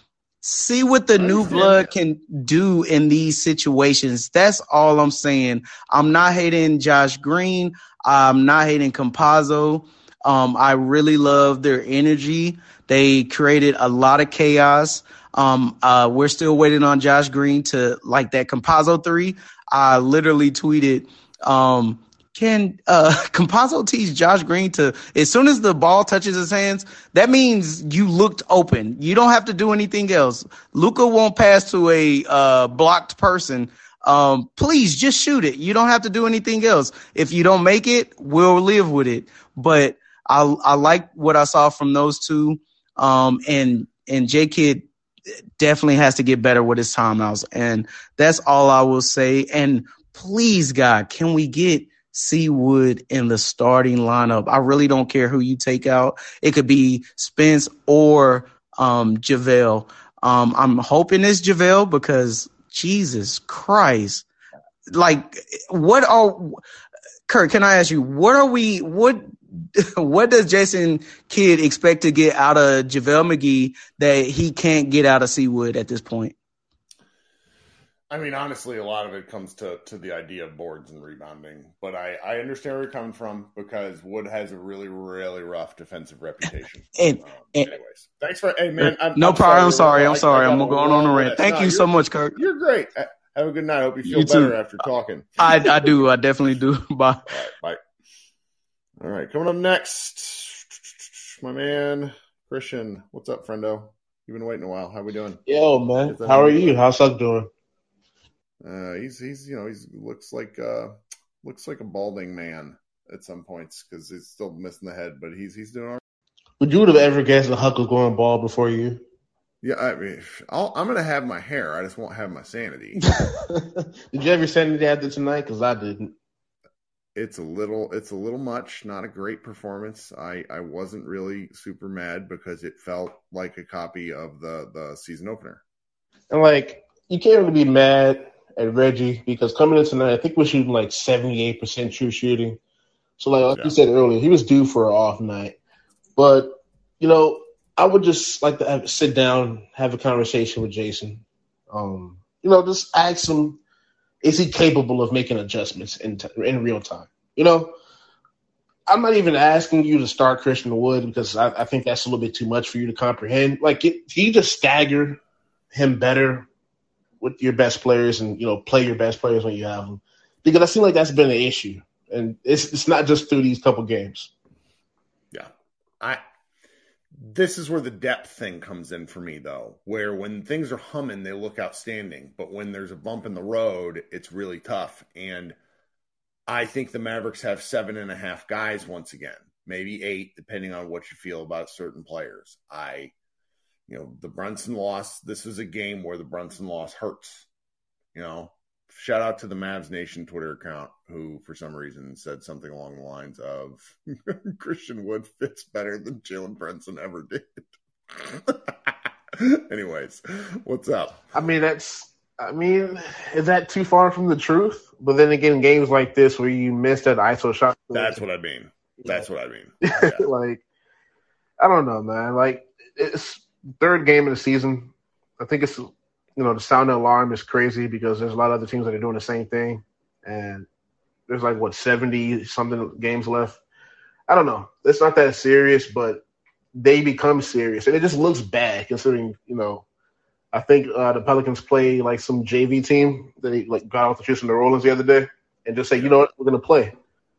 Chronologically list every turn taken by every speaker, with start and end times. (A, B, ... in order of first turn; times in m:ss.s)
0:00.4-0:44.9 A
0:01.2-0:01.9 B
0:45.6-1:04.2 A
1:04.9-1:06.6 A
1:07.3-1:16.3 A
1:18.1-1:36.1 B
1:27.0-1:27.7 A
1:28.8-1:32.4 A
1:34.0-1:34.6 A
1:35.4-1:37.4 A
1:37.3-1:37.8 B
1:39.0-1:45.4 B
1:45.5-1:47.5 C
1:46.0-1:46.8 B
1:48.6-1:56.0 B
1:56.6-1:59.0 C
1:59.6-2:03.0 B
2:03.5-2:06.1 C
2:07.1-2:15.6 B
2:16.3-2:22.6 C
2:23.2-2:25.6 C
2:23.5-2:23.8 B
2:26.2-2:33.6 C
2:34.2-2:37.7 C
2:38.9-2:45.2 C
2:45.7-2:46.5 C
2:47.2-2:54.3 C
2:55.3-2:56.2 B
2:57.1-3:05.6 B
3:06.5-3:13.1 B
3:13.9-3:17.5 B
3:18.1-3:31.2 B
3:31.3-3:38.2 C
3:37.9-3:40.2 B
3:39.8-3:40.6 C
3:41.6-3:50.7 C
3:51.3-3:53.6 C
3:54.3-3:56.2 C
3:56.7-3:59.8 C
4:00.5-4:07.0 C